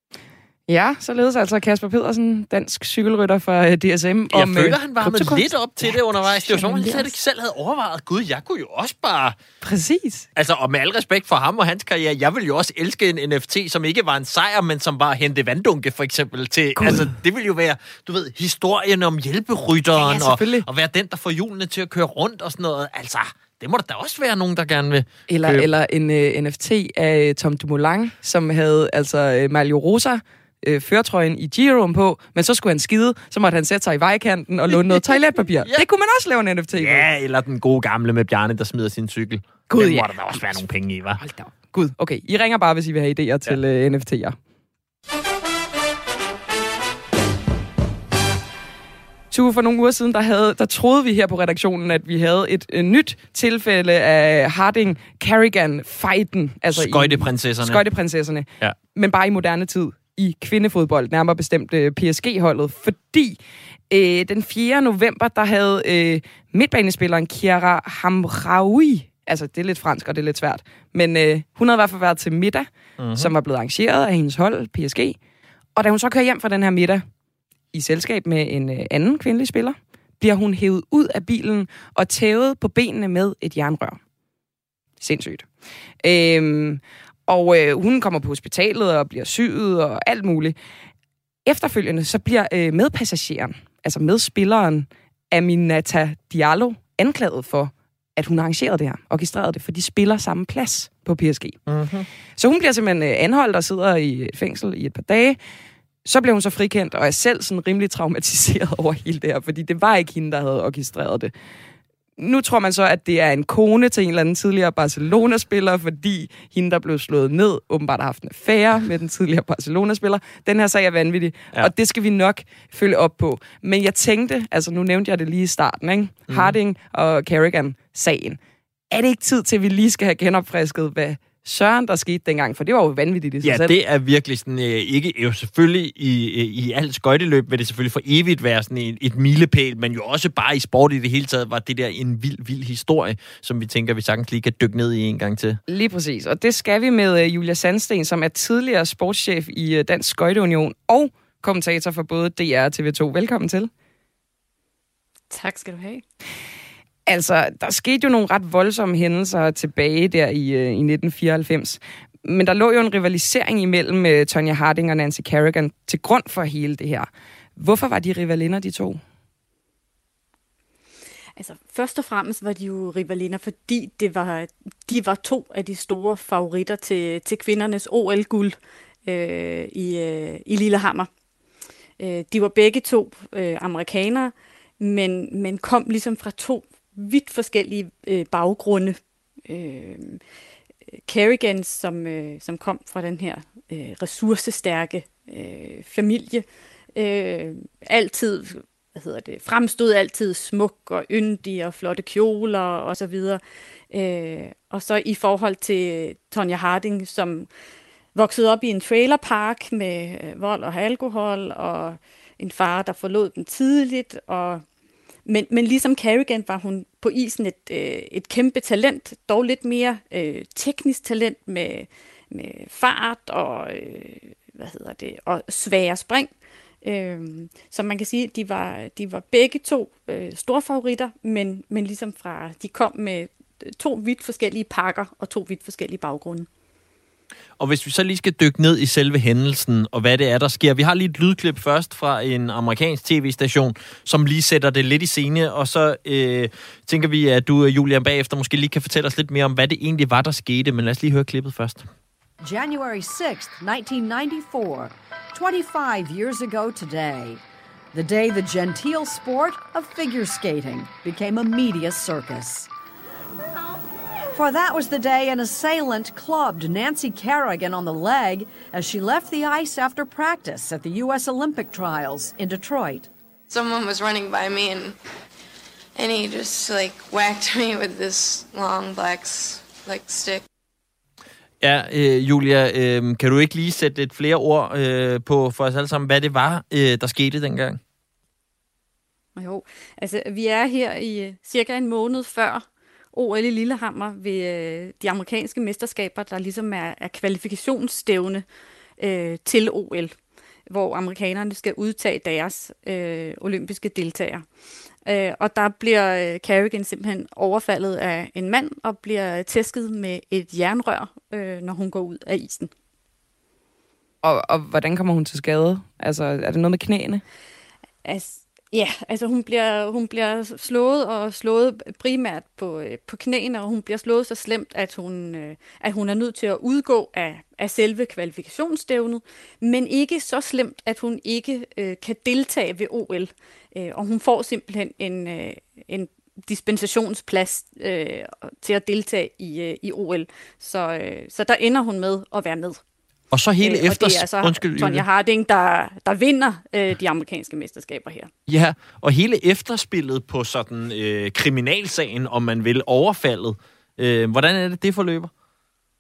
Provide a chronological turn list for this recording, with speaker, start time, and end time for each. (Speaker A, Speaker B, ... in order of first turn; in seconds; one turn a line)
Speaker A: 0.7-7.1
Speaker B: 4.3-9.3
Speaker A: 9.6-10.3
Speaker B: 10.3-25.7
Speaker A: 16.8-17.1
Speaker A: 19.9-20.6
Speaker A: 25.3-37.1
Speaker B: 34.7-35.0
Speaker B: 36.7-41.2
Speaker A: 39.7-40.6
Speaker A: 41.2-44.4
Speaker A: 49.3-63.4
Speaker B: 56.7-57.8
Speaker A: 63.9-75.2
Speaker B: 73.0-73.3
Speaker A: 75.8-77.0
Speaker A: 77.7-84.0
Speaker A: 85.0-85.5
Speaker A: 86.0-90.5
Speaker A: 91.5-101.6
Speaker B: 101.7-102.0
Speaker A: 102.4-105.4
Speaker A: 106.0-111.3
Speaker A: 112.2-128.4
Speaker B: 126.3-126.5
Speaker A: 128.9-133.7
Speaker B: 133.4-145.6
Speaker A: 145.7-153.7
Speaker C: 155.3-156.0
Speaker A: 157.1-169.0
Speaker C: 171.4-181.1
Speaker C: 182.0-190.2
Speaker C: 191.1-207.5
Speaker C: 208.1-214.6
Speaker C: 215.2-226.3
Speaker C: 226.8-236.5
Speaker B: 237.6-251.8
Speaker D: 252.4-257.4
Speaker D: 257.9-262.7
Speaker D: 264.3-273.1
Speaker E: 273.5-274.9
Speaker E: 275.9-280.4
Speaker B: 281.6-287.8
Speaker C: 289.4-298.4
Speaker C: 299.0-300.1
Speaker C: 300.7-304.4
Speaker C: 305.0-312.7
Speaker A: 314.2-317.2
Speaker C: 318.0-342.8
Speaker B: 343.3-345.1
Speaker C: 343.6-348.3
Speaker B: 348.5-355.3